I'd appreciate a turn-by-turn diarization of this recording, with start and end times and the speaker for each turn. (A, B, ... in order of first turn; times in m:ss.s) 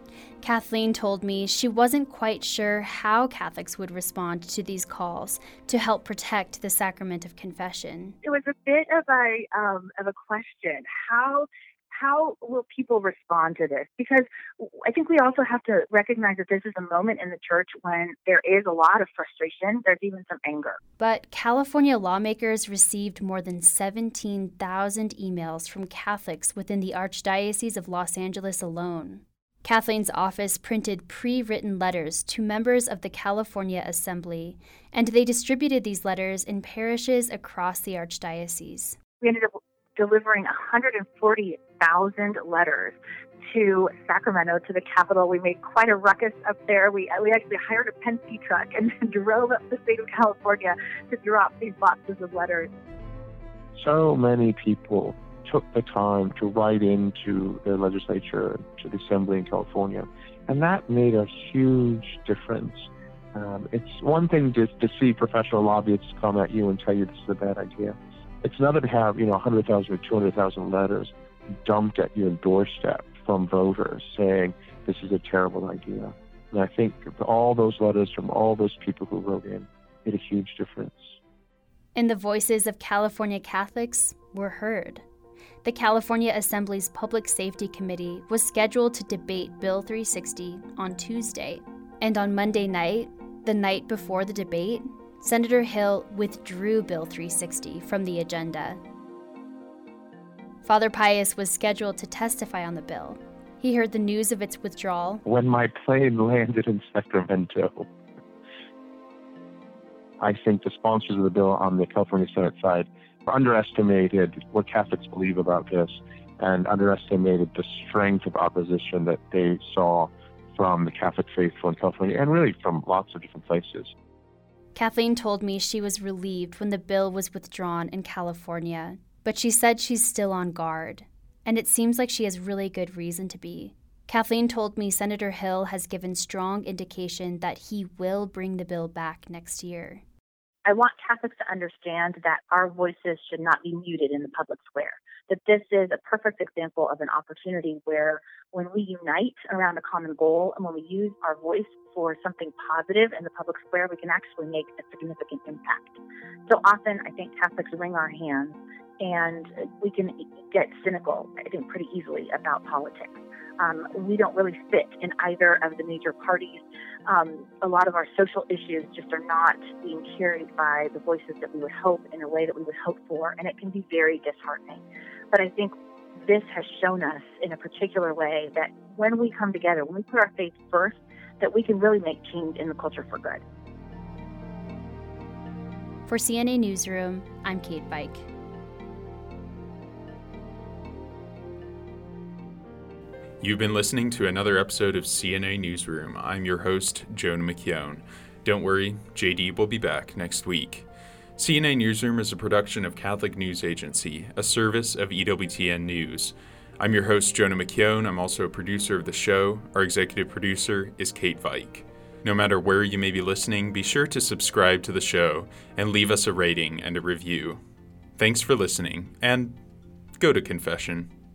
0:00.4-0:08.2 A
0:08.2-0:20.8 B
0:21.0-0:39.0 A
0:39.2-0:52.7 B
0:53.7-1:21.2 C
1:21.9-1:25.0 A
1:25.6-1:38.8 A
1:40.6-1:45.2 A
1:45.2-1:47.9 C
1:50.2-2:03.9 C
2:04.7-2:20.0 A
2:20.6-2:36.0 B
2:36.5-3:03.4 B
3:06.1-3:08.3 A
3:13.4-3:37.6 D
3:38.2-3:39.6 D
3:40.2-3:41.1 D